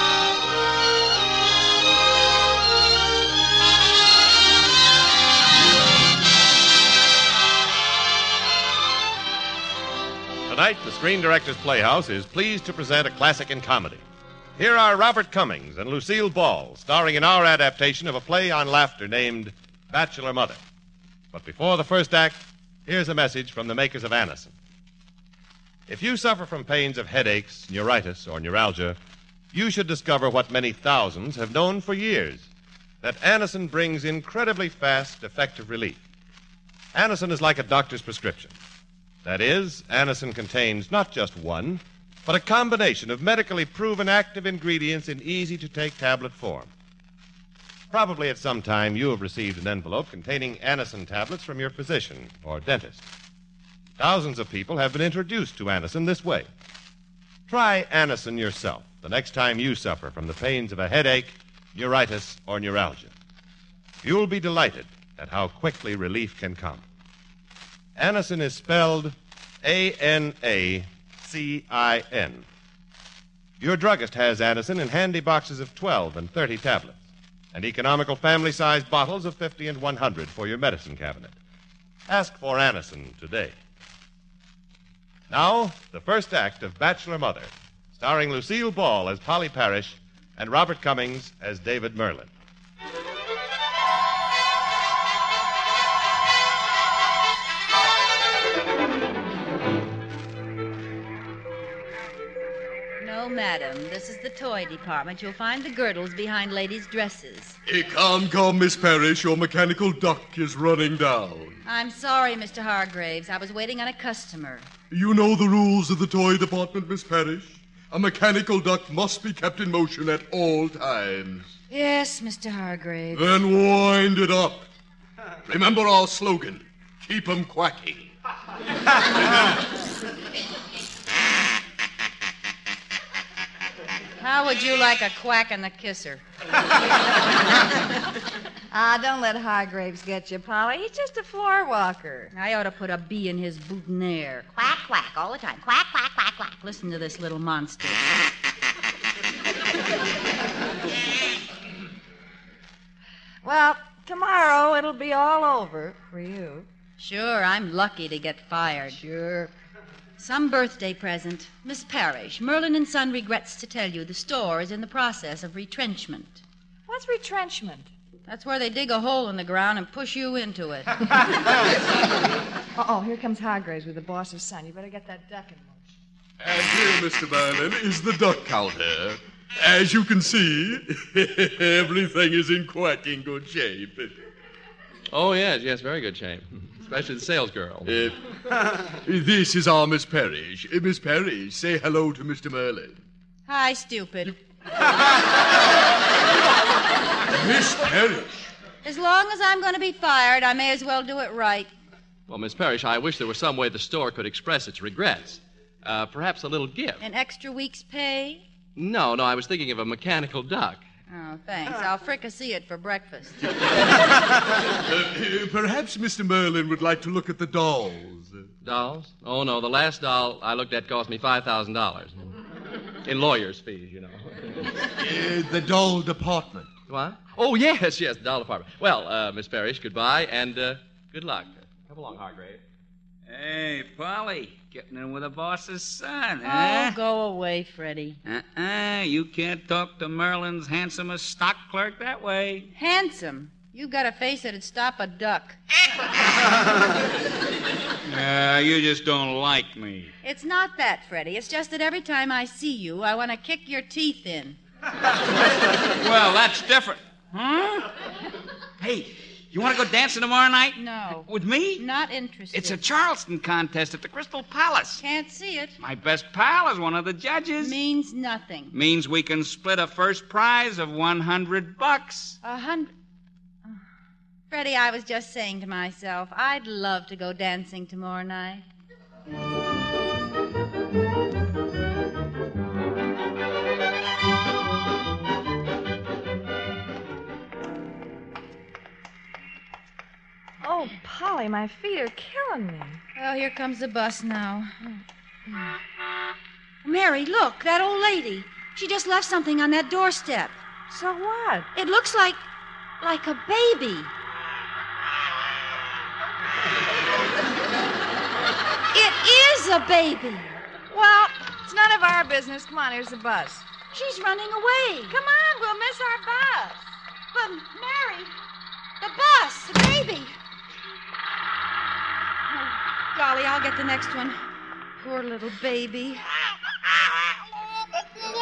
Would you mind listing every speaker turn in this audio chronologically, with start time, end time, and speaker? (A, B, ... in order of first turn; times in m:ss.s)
0:10.5-0:14.0 A
0:14.6-0:20.6 A
0:21.3-0:24.5 A
0:25.9-0:29.0 A
0:29.5-0:32.5 A
0:33.0-0:36.0 A
0:36.9-0:38.6 A
0:39.2-0:46.7 A
0:47.9-0:53.1 A
0:54.0-0:56.5 A
0:57.5-1:03.1 A
1:04.0-1:06.8 A
1:08.0-1:12.5 A
1:13.6-1:21.4 A
1:22.1-1:23.6 A
1:25.3-1:32.3 A
1:43.0-1:47.6 B
1:47.7-1:51.6 C
1:51.6-1:54.7 B
1:54.9-2:01.6 C
2:01.7-2:03.3 B
2:03.1-2:04.7 C
2:05.5-2:08.1 C
2:14.2-2:16.2 B
2:18.7-2:22.3 D
2:22.3-2:28.1 B
2:33.4-2:36.7 D
2:37.0-2:39.0 B
2:38.9-2:39.5 D
2:40.2-2:46.4 B
2:46.9-2:47.9 D
2:48.3-2:51.0 B
2:52.8-2:55.9 D
2:56.4-3:04.1 C
3:05.1-3:07.9 E
3:07.8-3:08.2 C
3:09.1-3:13.0 C
3:13.5-3:14.4 B
3:17.3-3:18.4 C
3:18.8-3:21.7 B
3:22.3-3:27.0 E
3:27.0-3:28.4 B
3:28.8-3:30.8 E
3:31.1-3:33.4 B
3:34.8-3:38.4 C
3:38.6-3:42.2 E
3:43.0-3:44.4 E
3:45.0-3:46.8 C
3:46.9-3:52.6 E
3:53.3-3:57.0 F
3:56.4-3:58.2 B
3:58.3-4:02.7 F
4:02.7-4:05.6 B
4:08.1-4:10.1 F
4:10.2-4:14.6 B
4:16.0-4:17.9 F
4:18.8-4:21.8 F
4:20.8-4:22.8 B
4:22.5-4:25.0 F
4:25.0-4:25.8 B
4:25.8-4:27.8 F
4:27.6-4:28.8 B
4:28.7-4:32.4 F
4:32.4-4:32.9 B
4:34.5-4:38.6 B
4:50.6-4:53.0 D
4:53.2-4:54.7 B
4:56.8-5:00.6 B
5:00.9-5:01.7 D
5:01.7-5:02.4 B
5:03.0-5:04.1 B
5:08.9-5:10.6 B
5:10.9-5:13.7 D
5:13.9-5:15.2 B
5:15.1-5:16.8 D
5:17.3-5:18.3 B
5:19.0-5:20.4 B
5:22.5-5:24.4 B
5:25.0-5:26.2 B